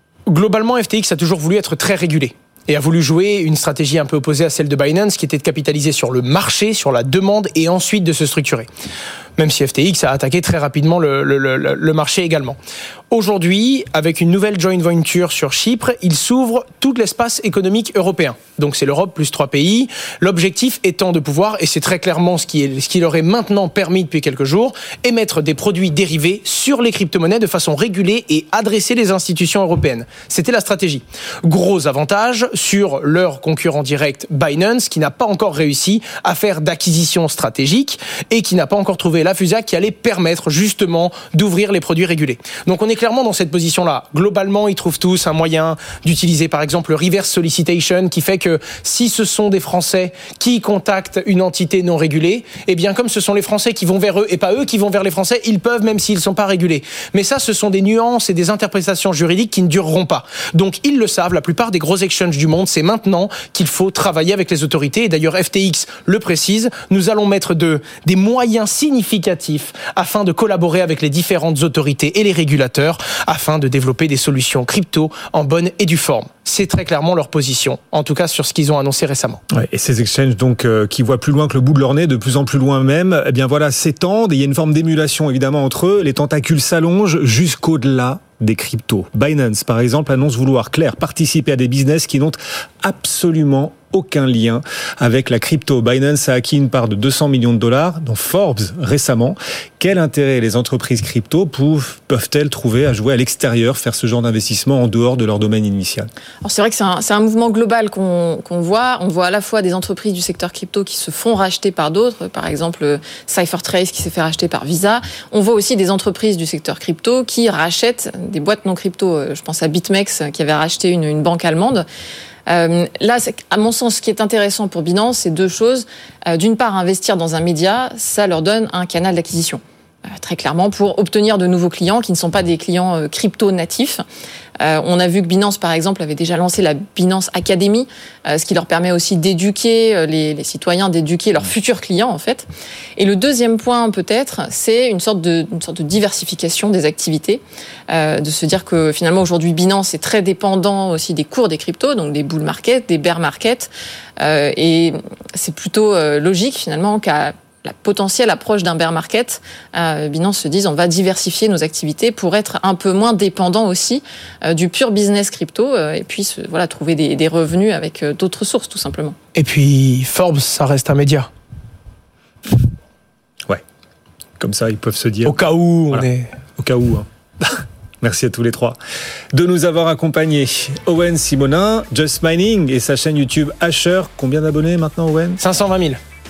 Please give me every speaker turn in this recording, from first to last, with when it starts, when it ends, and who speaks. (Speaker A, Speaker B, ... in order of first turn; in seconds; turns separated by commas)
Speaker A: 0.3-8.7, Speaker A: 9.4-12.6, Speaker A: 13.1-79.4, Speaker B: 79.5-106.1, Speaker C: 106.4-121.8, Speaker C: 122.5-134.0, Speaker C: 134.6-169.2, Speaker A: 169.3-171.3, Speaker B: 174.4-175.4, Speaker A: 175.2-176.3, Speaker B: 176.6-178.8, Speaker B: 179.3-185.4, Speaker A: 185.4-186.0